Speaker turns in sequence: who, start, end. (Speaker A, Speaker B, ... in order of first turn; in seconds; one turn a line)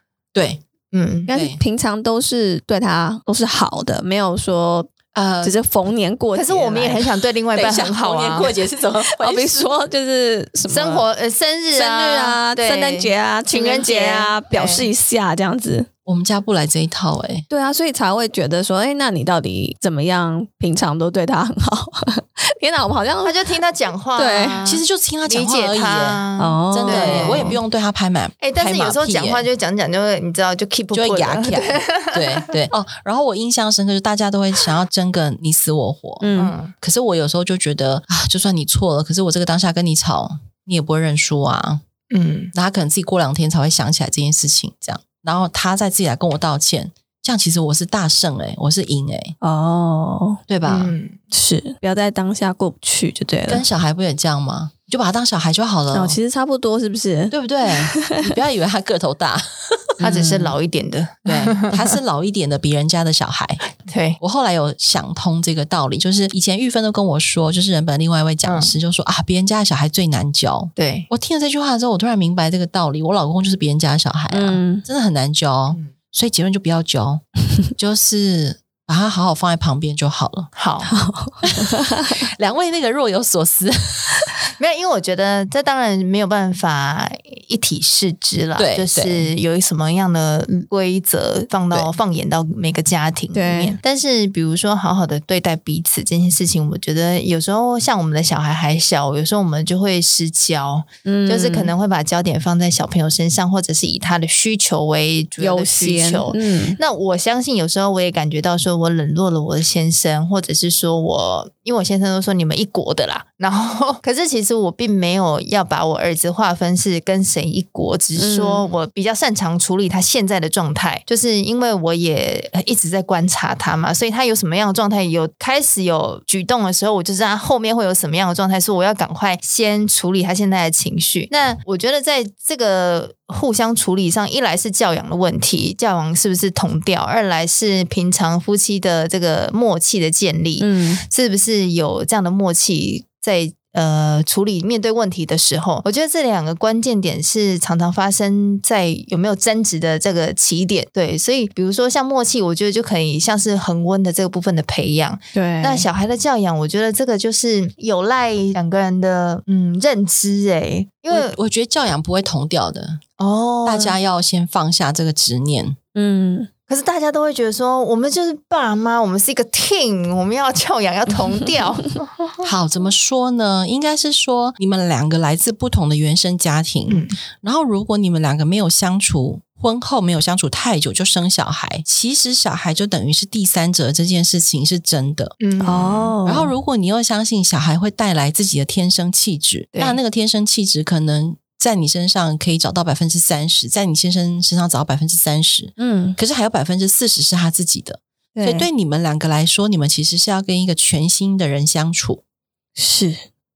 Speaker A: 0.3-0.6
Speaker B: 0.9-1.3
Speaker C: 1.3-7.1
Speaker A: 1.3-1.6
Speaker A: 5.1-5.5
Speaker B: 6.3-8.5
Speaker A: 7.5-9.6
Speaker C: 9.1-11.0
Speaker B: 10.7-14.9
Speaker C: 11.7-15.9
Speaker A: 16.1-17.4
Speaker C: 17.5-23.4
Speaker B: 23.2-27.6
Speaker C: 24.1-24.6
Speaker A: 24.6-29.4
Speaker C: 26.4-27.5
Speaker B: 28.4-32.5
Speaker A: 30.9-41.8
Speaker C: 36.2-36.5
Speaker B: 36.4-36.7
Speaker B: 42.1-42.5
Speaker A: 42.5-49.4
Speaker C: 49.4-50.4
Speaker A: 50.5-50.9
Speaker B: 50.6-51.2
Speaker C: 51.3-53.6
Speaker A: 53.5-56.2
Speaker C: 55.9-58.3
Speaker A: 57.3-60.0
Speaker C: 60.0-60.5
Speaker B: 60.0-62.0
Speaker A: 61.2-63.6
Speaker B: 63.8-64.2
Speaker A: 64.2-77.2
Speaker B: 68.4-68.7
Speaker B: 70.8-71.1
Speaker C: 74.3-74.8
Speaker A: 77.7-80.5
Speaker B: 80.5-80.9
Speaker C: 80.8-82.2
Speaker A: 81.5-84.3
Speaker B: 84.6-161.4
Speaker A: 88.6-89.3
Speaker C: 93.3-93.8
Speaker C: 101.0-101.7
Speaker C: 105.4-106.8
Speaker C: 118.2-118.7
Speaker C: 140.6-141.0
Speaker C: 155.3-155.8
Speaker A: 161.1-163.0
Speaker B: 163.2-163.9
Speaker A: 163.6-165.8
Speaker C: 165.9-166.5
Speaker B: 166.7-172.4
Speaker A: 172.4-185.4
Speaker B: 176.9-177.2
Speaker B: 185.4-186.2
Speaker C: 185.6-186.5
Speaker A: 186.2-202.2
Speaker B: 189.7-190.0
Speaker C: 195.8-196.2
Speaker C: 198.3-198.7
Speaker C: 202.8-203.2